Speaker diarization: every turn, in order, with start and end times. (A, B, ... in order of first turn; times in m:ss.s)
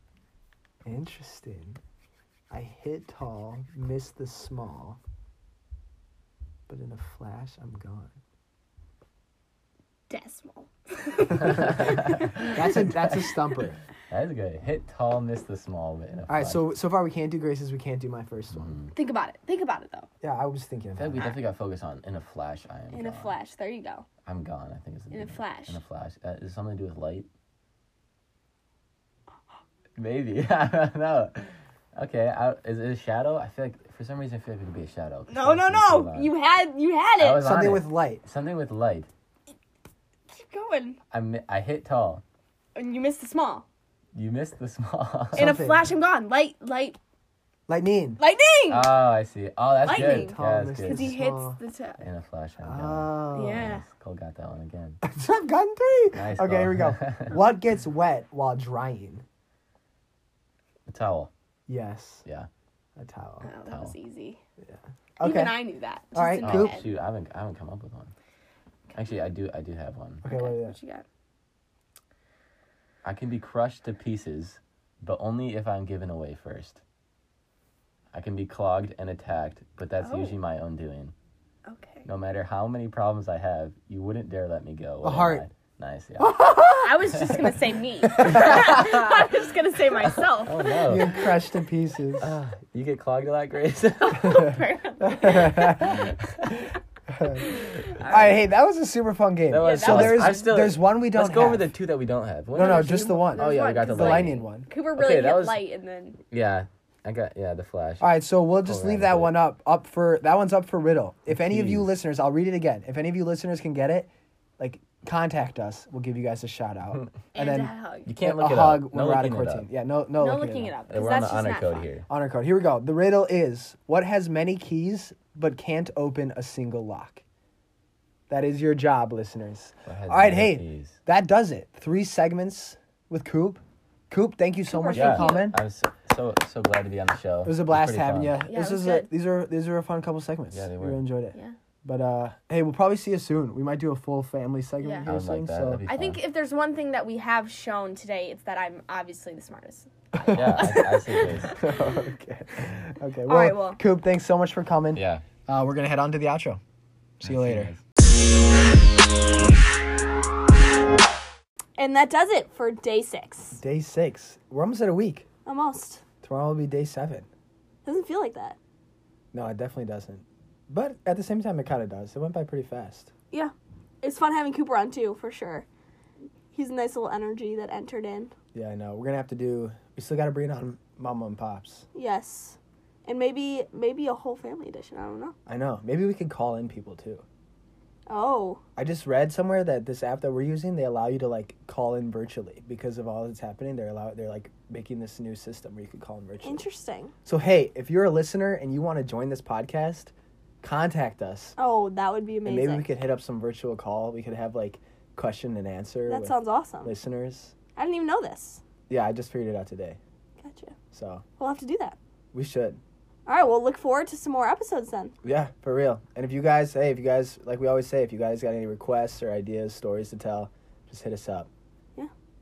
0:00.8-0:01.8 A
0:02.5-0:05.0 A
0:06.7-0:08.2 A
0:10.1-0:12.5 B
0:11.4-0:13.0 C
0:12.5-0:13.8 A
0:14.1-0:16.6 C
0:16.3-0:18.8 A
0:18.5-0:18.9 C
0:18.9-0:20.1 B
0:20.2-0:21.3 A
0:21.0-0:23.3 C
0:22.9-0:24.0 B
0:24.2-0:27.3 C
0:25.1-0:25.8 B
0:30.0-0:36.3 C
0:35.3-0:37.4 B
0:37.2-0:39.1 C
0:37.4-0:38.2 A
0:40.3-0:41.0 B
0:41.1-0:42.2 C
0:42.7-0:43.6 B
0:44.1-0:45.5 C
0:45.3-0:45.8 A
0:45.3-0:47.0 B
0:47.7-0:48.2 A
0:48.2-0:49.0 B
0:48.7-0:51.1 C
0:49.8-0:52.0 B
0:49.9-0:51.6 A
0:52.0-0:55.0 C
0:52.6-0:53.6 A
0:53.3-0:53.8 B
0:55.0-0:59.2 A
0:56.1-0:57.4 C
1:00.9-1:01.3 C
1:01.7-1:02.2 A
1:03.0-1:03.5 A
1:03.4-1:04.4 B
1:03.7-1:03.9 C
1:04.6-1:06.8 A
1:05.2-1:06.8 B
1:06.4-1:08.1 C
1:08.9-1:10.2 C
1:10.2-1:10.8 A
1:10.2-1:11.0 B
1:13.0-1:16.8 C
1:18.1-1:21.1 C
1:20.0-1:20.4 B
1:21.6-1:22.0 B
1:22.0-1:26.5 C
1:25.0-1:25.4 A
1:26.2-1:27.4 A
1:26.8-1:30.7 B
1:27.2-1:27.5 C
1:28.0-1:28.5 A
1:28.2-1:29.2 C
1:30.2-1:31.3 C
1:30.8-1:32.3 A
1:32.2-1:34.6 C
1:34.0-1:35.8 B
1:35.0-1:36.1 A
1:35.6-1:36.6 C
1:37.1-1:41.7 A
1:37.5-1:38.4 B
1:39.5-1:45.7 C
1:39.6-1:40.5 B
1:42.5-1:44.7 A
1:42.6-1:46.2 B
1:46.3-1:48.1 C
1:48.0-2:00.7 A
1:48.6-1:49.3 C
1:51.3-1:51.9 C
1:57.3-1:58.1 B
1:58.0-1:59.6 C
2:00.2-2:01.9 B
2:00.9-2:02.0 C
2:02.1-2:07.2 A
2:08.3-2:15.6 A
2:09.9-2:11.0 C
2:14.7-2:15.5 B
2:14.9-2:18.4 C
2:17.4-2:25.8 A
2:18.5-2:19.1 B
2:20.5-2:21.0 C
2:24.8-2:25.1 B
2:25.0-2:26.2 C
2:25.8-2:30.9 B
2:30.1-2:30.9 A
2:30.3-2:31.5 C
2:31.5-2:36.6 A
2:33.2-2:33.8 B
2:34.9-2:35.2 C
2:37.2-2:37.7 A
2:37.2-2:37.8 C
2:41.8-2:43.6 B
2:43.6-2:45.2 A
2:45.4-2:46.0 B
2:46.2-2:47.3 A
2:47.8-2:48.6 B
2:49.3-2:53.1 A
2:53.3-2:55.6 B
2:56.5-2:58.3 B
2:58.5-3:01.8 A
3:01.9-3:05.3 B
3:05.5-3:07.2 A
3:08.1-3:08.6 B
3:08.8-3:16.6 A
3:16.4-3:17.1 B
3:17.2-3:21.6 A
3:21.6-3:22.8 B
3:22.4-3:27.5 A
3:26.1-3:26.9 B
3:27.8-3:28.6 B
3:28.9-3:30.0 A
3:30.4-3:30.8 B
3:30.9-3:31.2 A
3:31.4-3:32.0 B
3:32.3-3:32.8 A
3:33.2-3:35.1 B
3:35.2-3:41.5 A